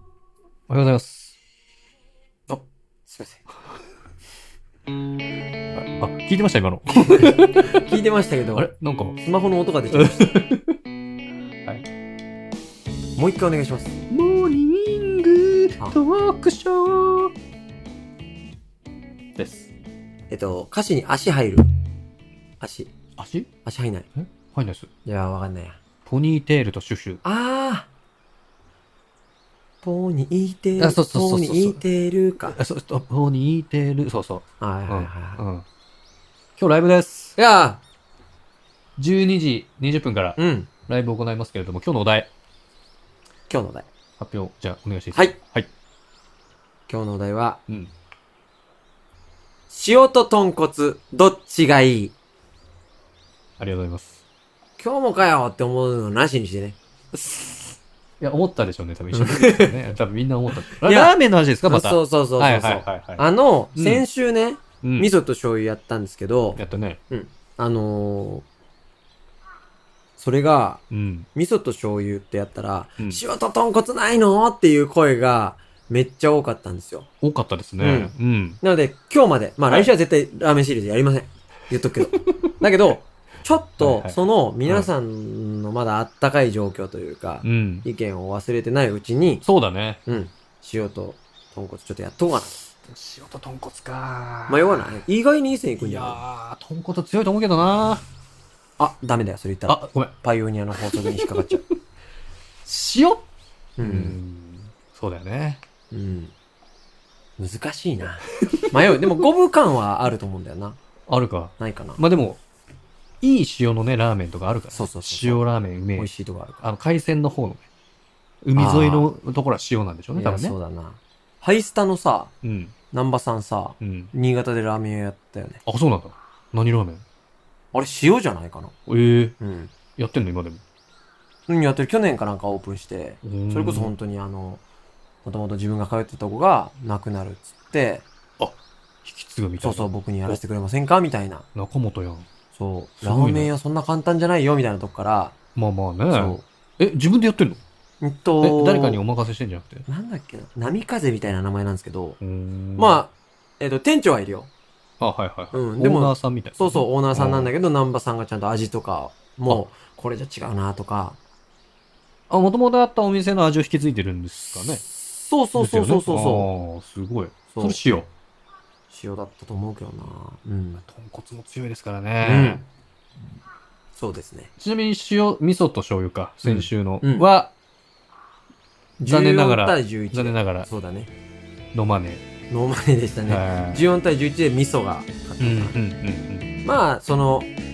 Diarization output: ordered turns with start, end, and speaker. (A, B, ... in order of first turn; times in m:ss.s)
0:00.7-0:01.4 A
0:03.1-0:03.4 B
0:05.8-0:07.9 A
0:07.2-0:10.4 B
0:08.6-0:09.2 A
0:09.9-0:10.8 A
0:13.2-0:14.0 B
0:14.1-0:17.3 A
0:19.4-0:19.7 A
0:20.3-0:21.7 B
0:22.6-0:22.9 B
0:23.2-0:23.5 A
0:23.6-0:24.1 B
0:24.2-0:24.9 A
0:25.0-0:25.8 B
0:26.1-0:27.2 A
0:27.2-0:27.9 B
0:29.8-0:32.6 B
0:30.8-0:31.8 A
0:32.4-0:35.6 A
0:34.6-0:35.4 B
0:36.6-0:37.4 A
0:37.4-0:37.8 B
0:39.0-0:42.3 A
0:40.4-0:40.7 B
0:43.5-0:43.9 B
0:44.2-0:45.7 A
0:46.9-0:47.6 B
0:49.7-0:52.2 B
0:53.6-0:54.2 A
0:54.8-0:56.8 B
0:57.1-1:04.0 A
0:59.1-0:59.8 B
1:00.7-1:08.4 B
1:04.8-1:05.1 A
1:06.6-1:07.0 A
1:10.2-1:10.8 B
1:10.9-1:11.3 A
1:11.4-1:17.1 B
1:17.2-1:18.6 A
1:17.8-1:29.4 B
1:22.1-1:22.5 A
1:23.8-1:24.9 A
1:27.4-1:27.9 A
1:29.4-1:30.0 A
1:30.1-1:32.5 B
1:32.8-1:34.9 A
1:34.5-1:36.2 B
1:35.8-1:38.0 A
1:38.8-1:41.6 B
1:39.7-1:40.1 A
1:40.8-1:41.6 A
1:42.6-1:43.2 A
1:43.8-1:44.2 B
1:43.8-1:45.6 A
1:45.9-1:46.3 B
1:47.4-1:50.8 B
1:48.4-1:49.0 A
1:51.1-1:52.4 A
1:51.6-1:52.0 B
1:53.2-1:56.1 A
1:54.7-1:55.4 B
1:56.0-1:56.6 B
1:56.6-1:57.6 A
1:58.4-2:00.6 A
1:58.6-1:59.1 B
2:00.2-2:02.3 B
2:02.4-2:02.7 A
2:02.9-2:05.6 B
2:03.8-2:04.1 A
2:05.6-2:07.0 A
2:07.7-2:08.7 B
2:08.9-2:09.4 A
2:09.4-2:09.7 B
2:10.0-2:10.6 A
2:11.5-2:14.6 B
2:13.2-2:13.9 A
2:15.2-2:18.1 B
2:18.4-2:20.4 A
2:19.6-2:21.5 B
2:21.5-2:22.3 A
2:22.5-2:25.4 B
2:23.0-2:23.5 A
2:25.6-2:27.6 A
2:26.1-2:26.4 B
2:28.0-2:29.0 B
2:28.4-2:29.9 A
2:29.9-2:32.2 B
2:32.2-2:33.0 A
2:32.8-2:34.5 B
2:35.0-2:37.5 A
2:35.5-2:41.2 B
2:42.3-2:44.8 A
2:44.6-2:46.5 B
2:45.6-2:48.1 A
2:47.5-2:47.8 B
2:48.9-2:50.8 B
2:50.8-2:52.6 A
2:52.2-2:52.6 B
2:53.9-2:54.5 B
2:54.6-2:57.5 A
2:56.4-2:57.3 B
2:59.0-3:01.1 B
2:59.1-3:00.7 A
3:01.7-3:02.2 A
3:02.5-3:05.8 B
3:03.3-3:03.9 A
3:05.4-3:06.5 A
3:06.6-3:07.5 B